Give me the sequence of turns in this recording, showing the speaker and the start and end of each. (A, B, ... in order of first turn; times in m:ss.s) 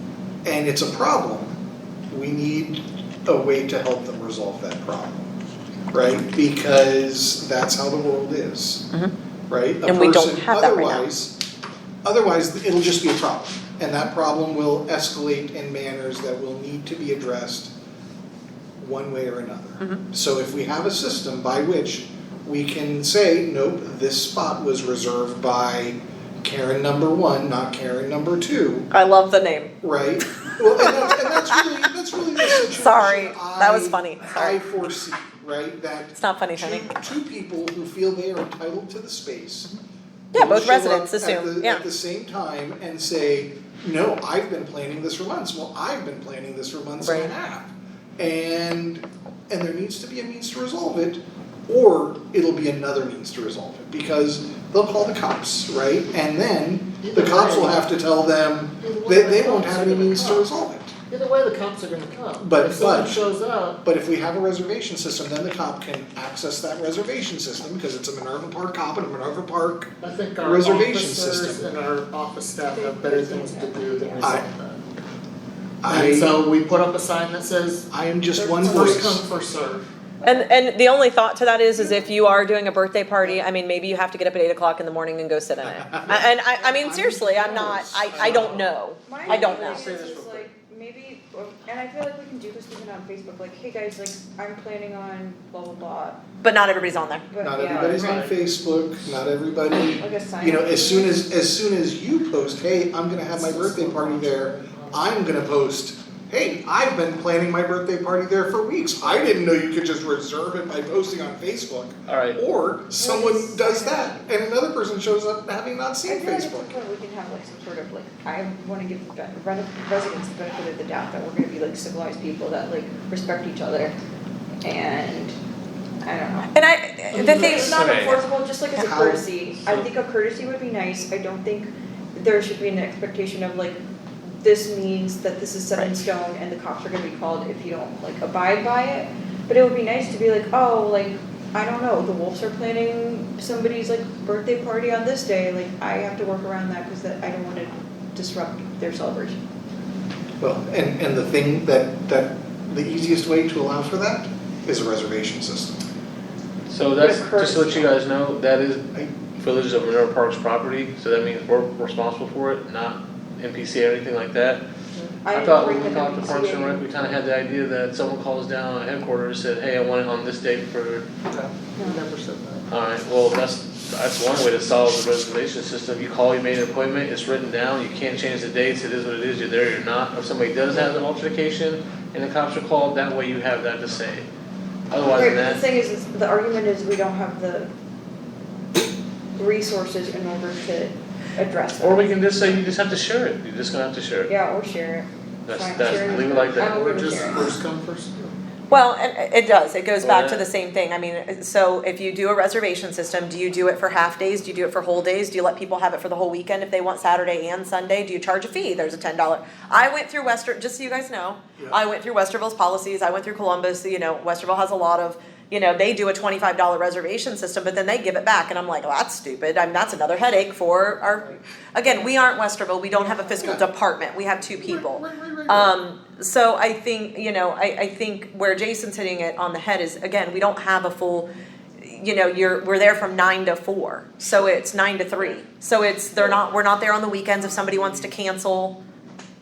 0:00.4-0:01.6 A
0:02.1-0:05.2 A
0:05.9-0:08.9 A
0:09.5-0:11.4 A
0:09.8-0:11.1 B
0:12.0-0:17.7 A
0:18.8-0:28.9 A
0:28.9-0:29.8 B
0:29.8-0:39.7 A
0:32.5-0:34.6 B
0:36.1-0:37.0 B
0:40.3-0:41.8 B
0:40.3-1:00.9 A
0:47.0-0:47.3 B
0:57.0-0:57.8 C
0:58.8-1:00.5 C
1:01.1-1:03.8 C
1:02.4-1:03.2 A
1:03.8-1:11.7 A
1:10.0-1:14.8 C
1:12.7-1:14.3 D
1:14.2-1:14.5 A
1:15.8-1:16.4 A
1:15.9-1:17.9 C
1:17.9-1:19.2 A
1:18.3-1:19.2 D
1:18.6-1:20.4 C
1:20.2-1:29.8 B
1:25.6-1:28.7 A
1:29.0-1:36.2 D
1:29.2-1:30.5 E
1:36.4-1:37.3 B
1:37.3-1:38.2 D
1:37.4-1:56.8 A
1:37.6-1:38.4 E
1:40.0-1:41.3 D
1:43.3-1:45.2 C
1:52.1-1:52.4 E
1:52.9-1:54.2 D
1:56.1-2:03.9 D
2:04.6-2:05.4 D
2:06.0-2:06.5 D
2:06.5-2:07.6 B
2:07.1-2:13.8 D
2:07.4-2:08.2 E
2:08.8-2:09.2 A
2:09.6-2:09.9 E
2:14.4-2:29.4 D
2:30.4-2:35.8 A
2:36.7-2:44.6 E
2:37.0-2:37.9 D
2:45.2-2:47.2 D
2:45.3-2:51.1 E
2:51.3-2:52.7 C
2:51.8-2:52.0 D
2:52.7-3:04.3 E
3:04.9-3:05.6 E
3:05.1-3:07.7 D
3:09.4-3:12.2 D
3:11.8-3:14.3 E
3:14.3-3:17.6 D
3:15.5-3:16.8 E
3:16.0-3:18.4 C
3:18.7-3:51.3 B
3:20.0-3:20.5 E
3:43.1-3:43.7 A
3:44.6-3:45.8 A
3:51.8-3:58.8 B
3:57.4-3:58.1 A